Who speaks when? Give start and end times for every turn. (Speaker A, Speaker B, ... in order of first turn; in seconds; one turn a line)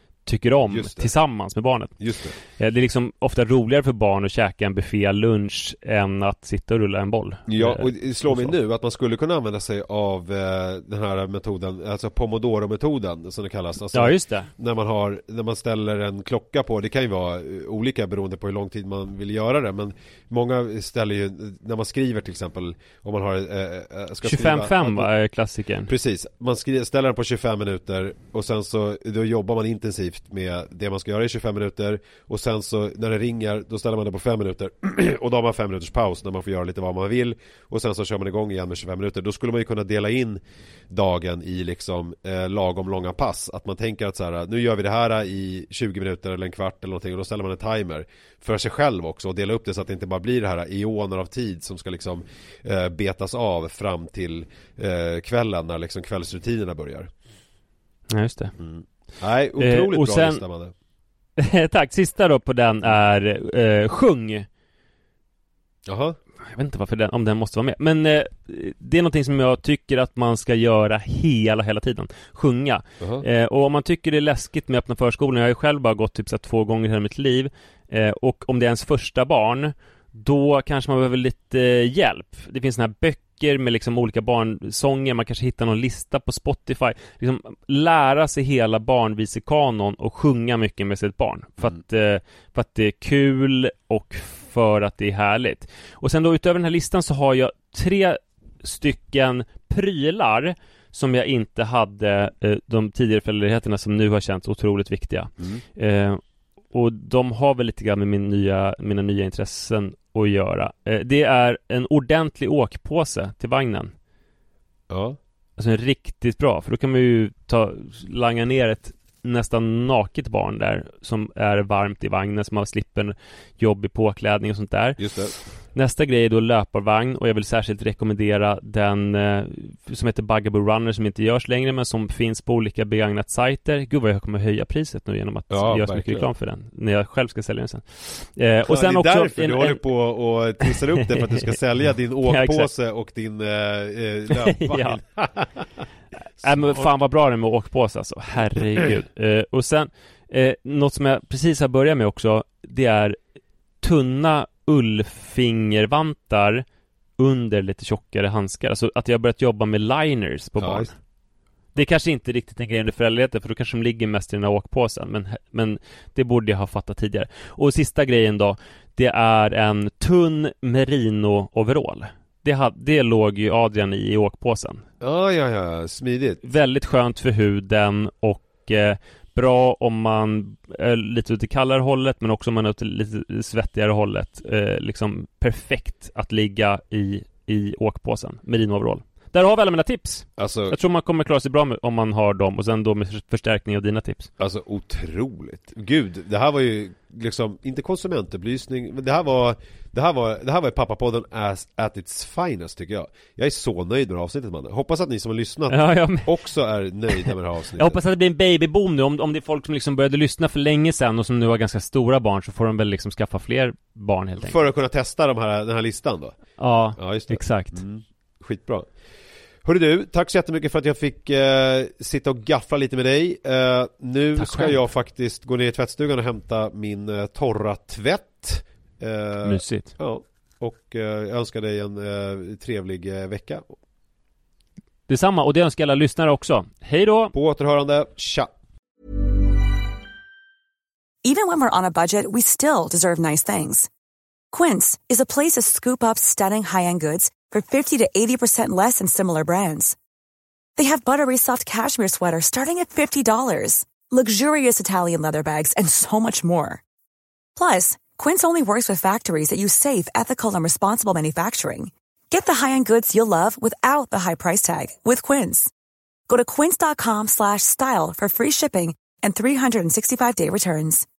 Speaker A: 0.2-1.9
Speaker B: 0.6-1.1
Speaker B: 2.0-2.4
Speaker A: 2.5-8.5
Speaker B: 7.5-25.1
Speaker A: 13.9-14.5
Speaker A: 24.2-25.9
Speaker B: 25.9-57.1
Speaker A: 58.1-58.5
Speaker B: 58.6-60.7
Speaker A: 59.6-60.4
Speaker A: 61.4-64.5
Speaker B: 65.8-66.2
Speaker A: 66.5-106.2
Speaker A: 106.7-113.9
Speaker B: 114.9-115.2
Speaker A: 115.6-125.0
Speaker B: 125.0-125.3
Speaker A: 125.7-139.8
Speaker B: 135.5-136.3
Speaker B: 138.7-145.8
Speaker A: 140.6-141.5
Speaker A: 142.2-142.7
Speaker A: 144.3-145.0
Speaker A: 146.4-153.2
Speaker B: 146.4-146.9
Speaker B: 148.6-149.1
Speaker A: 153.8-156.6
Speaker A: 157.2-160.9
Speaker B: 160.6-160.9
Speaker A: 161.7-174.8
Speaker B: 175.0-176.4
Speaker A: 176.4-194.3
Speaker B: 190.4-190.8
Speaker B: 194.4-208.0
Speaker A: 205.7-206.3
Speaker A: 207.1-214.6
Speaker B: 214.4-216.3
Speaker A: 216.6-217.8
Speaker B: 217.0-218.9
Speaker B: 219.6-233.7
Speaker A: 224.4-224.8
Speaker A: 229.4-229.9
Speaker A: 235.1-237.3
Speaker B: 237.3-238.5
Speaker C: 241.2-243.9
Speaker C: 244.5-249.9
Speaker C: 250.8-256.8
Speaker C: 257.6-265.7
Speaker C: 266.3-271.1